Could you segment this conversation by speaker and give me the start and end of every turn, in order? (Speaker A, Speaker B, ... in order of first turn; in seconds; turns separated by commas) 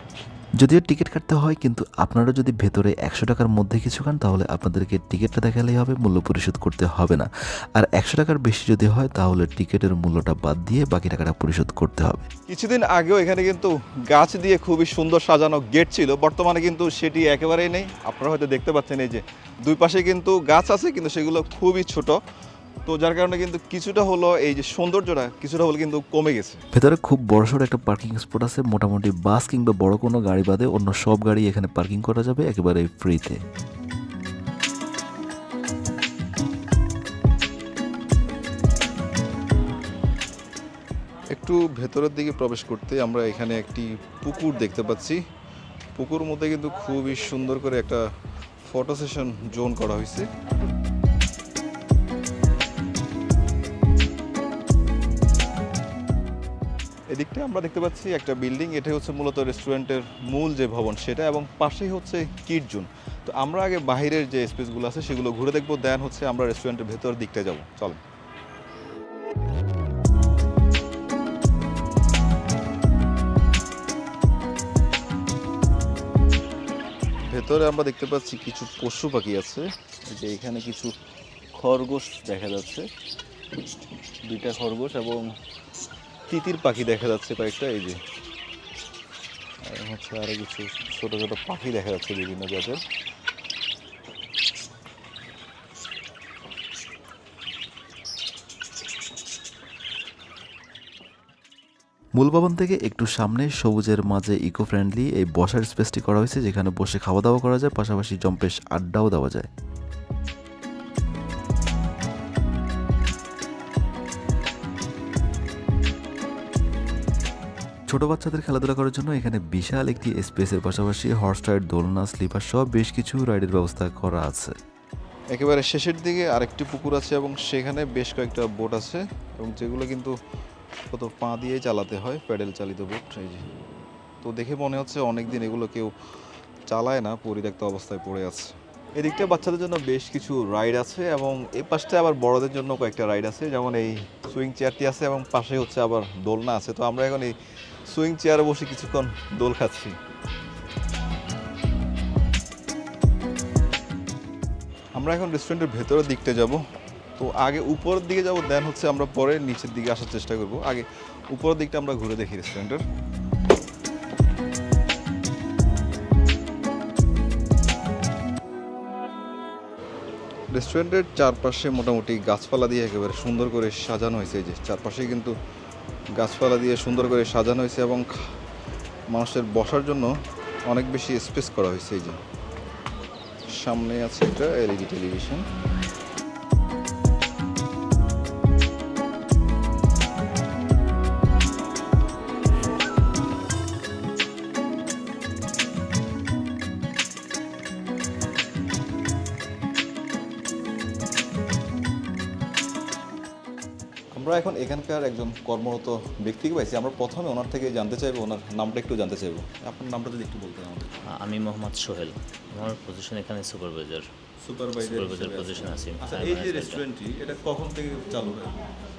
Speaker A: 0.6-12.3, Speaker B: 12.5-22.2, Speaker B: 22.9-26.6, Speaker A: 26.7-33.4, Speaker B: 41.3-45.2, Speaker B: 46.0-48.0, Speaker B: 48.6-50.3, Speaker B: 57.1-68.0, Speaker B: 77.3-80.9, Speaker B: 81.5-82.8, Speaker B: 84.2-85.3, Speaker B: 86.3-88.0, Speaker B: 89.7-92.8, Speaker A: 102.2-109.5, Speaker A: 117.9-124.5, Speaker B: 125.3-130.1, Speaker B: 130.9-133.5, Speaker B: 134.2-135.9, Speaker B: 136.7-147.3, Speaker B: 147.9-149.9, Speaker B: 155.0-156.6, Speaker B: 157.2-162.8, Speaker B: 170.5-175.3, Speaker B: 176.2-178.1, Speaker B: 179.1-180.1, Speaker B: 180.7-182.2, Speaker B: 183.6-185.4, Speaker B: 204.1-210.9, Speaker C: 211.2-214.1, Speaker B: 214.4-218.6, Speaker C: 214.8-216.8